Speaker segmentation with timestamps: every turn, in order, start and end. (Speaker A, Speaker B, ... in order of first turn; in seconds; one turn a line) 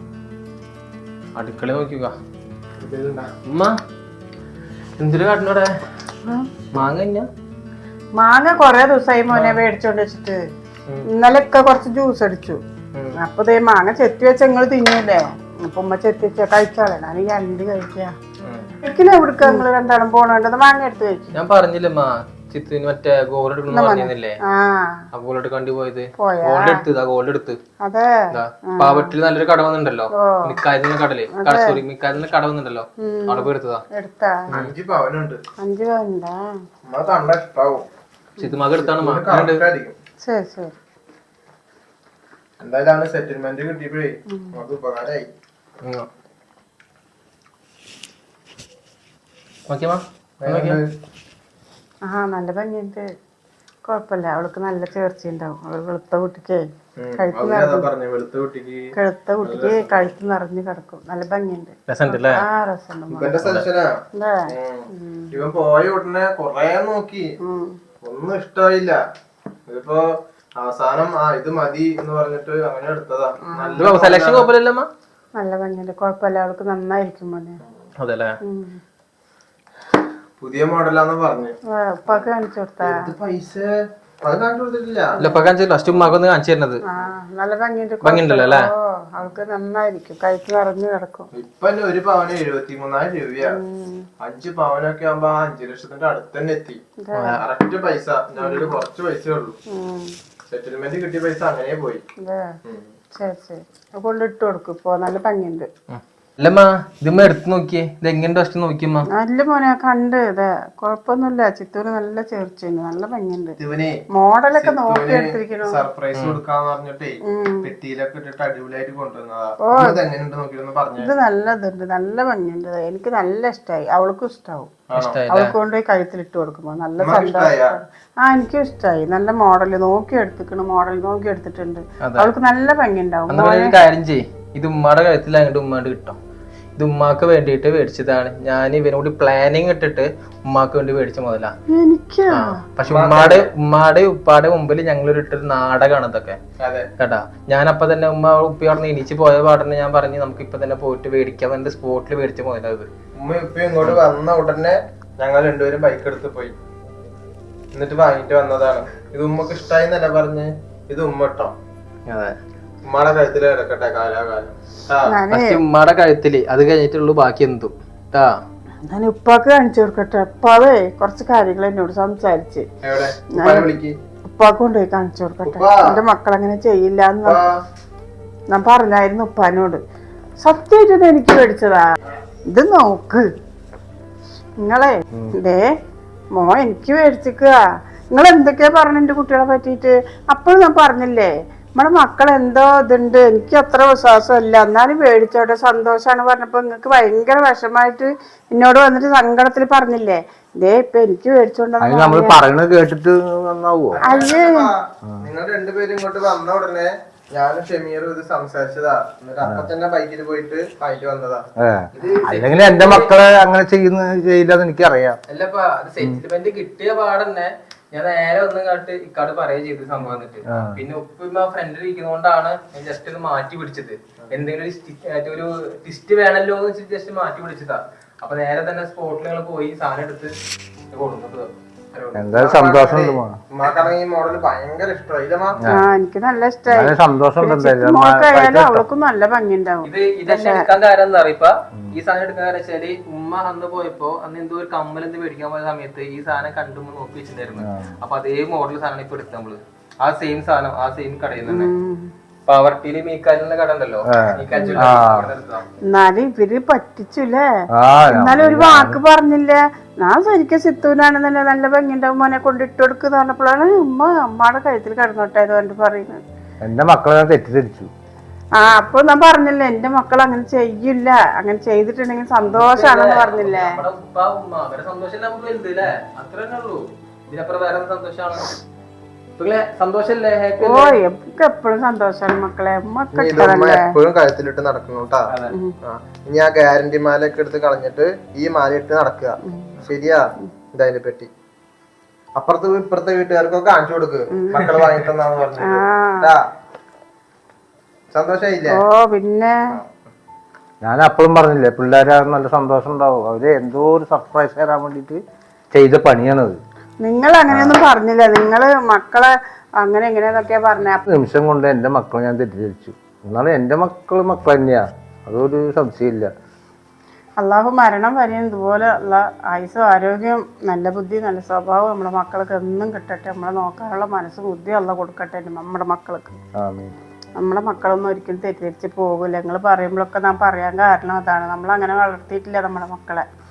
Speaker A: 1.4-2.1
Speaker B: 2.8-3.3
Speaker A: 3.4-3.8
Speaker A: 5.0-5.7
Speaker A: 6.7-7.3
Speaker C: 8.2-10.4
Speaker A: 9.3-9.6
Speaker C: 11.1-12.6
Speaker C: 13.2-18.1
Speaker A: 18.4-18.7
Speaker C: 18.8-21.4
Speaker A: 21.3-24.4
Speaker C: 23.7-25.0
Speaker A: 25.1-27.6
Speaker C: 26.2-26.8
Speaker C: 27.8-28.1
Speaker A: 28.3-33.8
Speaker C: 28.7-29.1
Speaker C: 30.1-30.6
Speaker C: 31.3-31.8
Speaker C: 33.0-34.5
Speaker B: 34.5-35.4
Speaker C: 35.6-36.4
Speaker B: 36.9-37.8
Speaker A: 38.4-39.6
Speaker B: 38.7-40.0
Speaker C: 40.2-40.8
Speaker B: 42.6-45.3
Speaker C: 44.3-44.5
Speaker A: 45.8-46.1
Speaker A: 49.7-50.8
Speaker B: 50.4-50.9
Speaker C: 52.0-53.0
Speaker C: 53.8-56.6
Speaker B: 57.0-58.9
Speaker C: 57.2-57.9
Speaker C: 59.0-63.4
Speaker B: 59.4-60.1
Speaker A: 61.9-62.4
Speaker B: 63.1-67.2
Speaker A: 63.4-63.7
Speaker C: 64.1-65.3
Speaker C: 67.4-67.8
Speaker B: 68.0-69.0
Speaker B: 69.7-70.0
Speaker B: 70.6-74.5
Speaker C: 73.5-73.9
Speaker A: 73.8-74.9
Speaker C: 75.4-77.6
Speaker A: 78.0-78.3
Speaker C: 78.4-78.8
Speaker B: 80.4-81.5
Speaker C: 81.7-83.0
Speaker B: 82.8-85.2
Speaker C: 85.2-85.5
Speaker A: 85.2-86.8
Speaker C: 86.8-91.3
Speaker A: 88.0-88.7
Speaker B: 91.3-93.6
Speaker C: 93.4-94.1
Speaker B: 94.2-96.8
Speaker C: 97.0-97.4
Speaker B: 97.4-99.6
Speaker C: 98.4-98.8
Speaker C: 99.7-100.1
Speaker B: 100.5-102.0
Speaker C: 102.2-102.6
Speaker B: 102.6-102.9
Speaker C: 103.1-105.7
Speaker A: 105.9-109.1
Speaker C: 109.1-113.6
Speaker B: 113.6-114.0
Speaker C: 114.1-115.8
Speaker B: 114.5-121.1
Speaker A: 116.1-116.4
Speaker C: 117.3-117.7
Speaker C: 119.6-120.0
Speaker C: 121.0-124.8
Speaker B: 124.9-125.2
Speaker A: 124.9-125.5
Speaker C: 125.3-133.8
Speaker B: 127.0-127.8
Speaker A: 132.0-132.3
Speaker A: 133.3-136.2
Speaker A: 136.8-141.5
Speaker C: 141.7-142.6
Speaker A: 142.3-146.4
Speaker B: 142.8-143.5
Speaker B: 146.6-146.9
Speaker A: 147.0-152.9
Speaker B: 153.2-156.6
Speaker B: 157.7-161.5
Speaker A: 162.1-162.4
Speaker B: 162.8-165.2
Speaker C: 165.1-165.6
Speaker A: 165.3-168.4
Speaker C: 168.9-172.7
Speaker B: 172.8-174.0
Speaker C: 173.3-173.7
Speaker C: 174.3-177.4
Speaker B: 175.4-175.9
Speaker B: 177.2-177.6
Speaker C: 178.5-179.8
Speaker C: 180.4-181.8
Speaker C: 182.5-183.2
Speaker C: 184.6-185.7
Speaker C: 186.3-187.5
Speaker C: 188.1-202.4
Speaker D: 201.8-204.0
Speaker B: 203.9-211.5
Speaker C: 204.0-204.7
Speaker D: 209.4-209.7
Speaker D: 211.6-215.2
Speaker A: 211.9-213.1
Speaker A: 215.3-230.3
Speaker D: 220.5-220.7
Speaker A: 230.9-232.2
Speaker D: 232.1-233.4
Speaker B: 232.3-235.6
Speaker D: 235.6-235.9
Speaker C: 235.7-240.7
Speaker D: 236.7-238.8
Speaker A: 239.8-251.7
Speaker D: 247.6-247.9
Speaker C: 251.5-252.1
Speaker A: 252.5-255.7
Speaker D: 254.1-255.3
Speaker C: 254.5-254.9
Speaker C: 255.9-257.4
Speaker D: 257.7-259.0
Speaker C: 258.1-266.2
Speaker D: 266.6-267.9
Speaker C: 268.6-273.8
Speaker A: 272.4-278.6
Speaker A: 279.4-281.0
Speaker C: 280.6-283.9
Speaker B: 283.1-285.3
Speaker B: 285.8-291.3
Speaker C: 289.4-289.8
Speaker B: 292.3-296.4
Speaker C: 294.3-294.7
Speaker C: 295.6-296.3
Speaker B: 298.1-298.8
Speaker C: 298.7-299.5
Speaker D: 300.8-305.2
Speaker D: 305.7-306.6
Speaker C: 307.0-311.0
Speaker D: 307.5-307.8
Speaker D: 311.1-316.3
Speaker C: 317.4-326.4
Speaker D: 326.6-326.9
Speaker C: 327.4-333.2